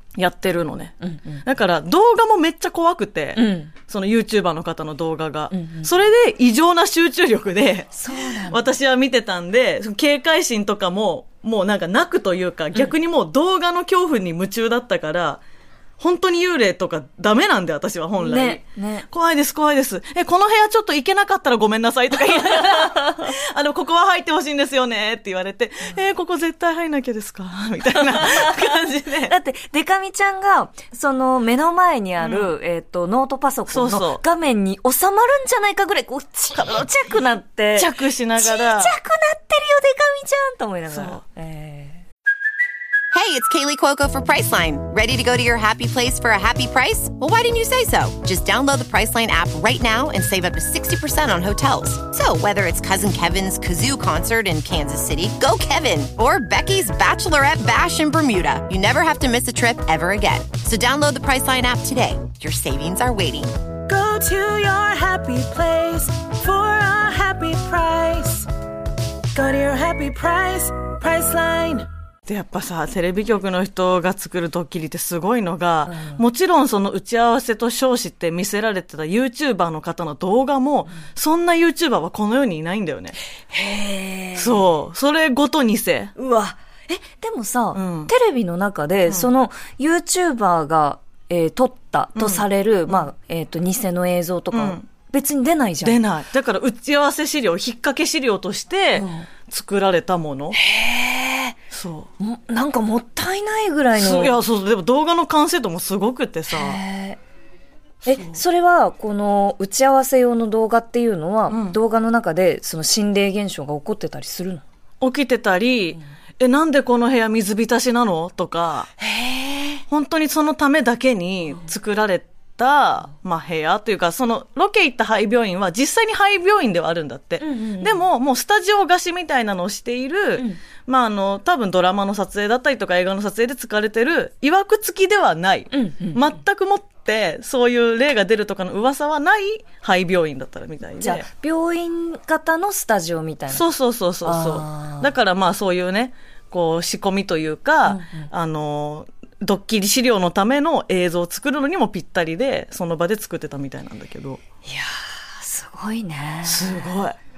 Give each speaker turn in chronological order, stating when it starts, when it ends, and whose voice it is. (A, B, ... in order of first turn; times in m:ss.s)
0:00.2-0:15.4 A
0:01.0-0:01.4 B
0:03.4-0:03.7 B
0:05.5-0:05.9 B
0:07.9-0:08.7 B
0:16.0-0:29.3 A
0:18.2-0:19.1 B
0:28.1-0:28.7 B
0:29.3-0:42.0 B
0:32.2-0:32.5 A
0:33.7-0:34.2 A
0:37.7-0:38.9 A
0:40.9-0:41.2 A
0:43.1-1:03.6 C
1:03.9-1:08.5 D
1:09.3-1:11.9 D
1:12.2-1:23.2 A
1:15.9-1:16.2 B
1:23.5-1:24.6 B
1:24.3-1:26.1 A
1:26.2-1:36.0 B
1:27.7-1:28.1 A
1:32.1-1:33.1 A
1:34.5-1:34.8 A
1:35.8-1:40.6 A
1:39.0-1:39.3 B
1:40.5-1:41.5 B
1:41.7-1:42.1 A
1:42.2-1:44.4 B
1:43.9-1:46.8 A
1:46.5-1:47.2 B
1:48.0-1:54.6 B
1:48.1-1:48.4 A
1:51.5-1:51.8 A
1:55.0-1:58.9 A
1:59.0-1:59.8 B
1:59.9-2:21.2 A
2:07.4-2:08.0 B
2:15.7-2:16.2 B
2:21.0-2:23.6 B
2:23.5-2:34.4 A
2:24.2-2:25.1 B
2:27.8-2:28.3 B
2:34.6-2:36.9 B
2:36.4-2:37.2 A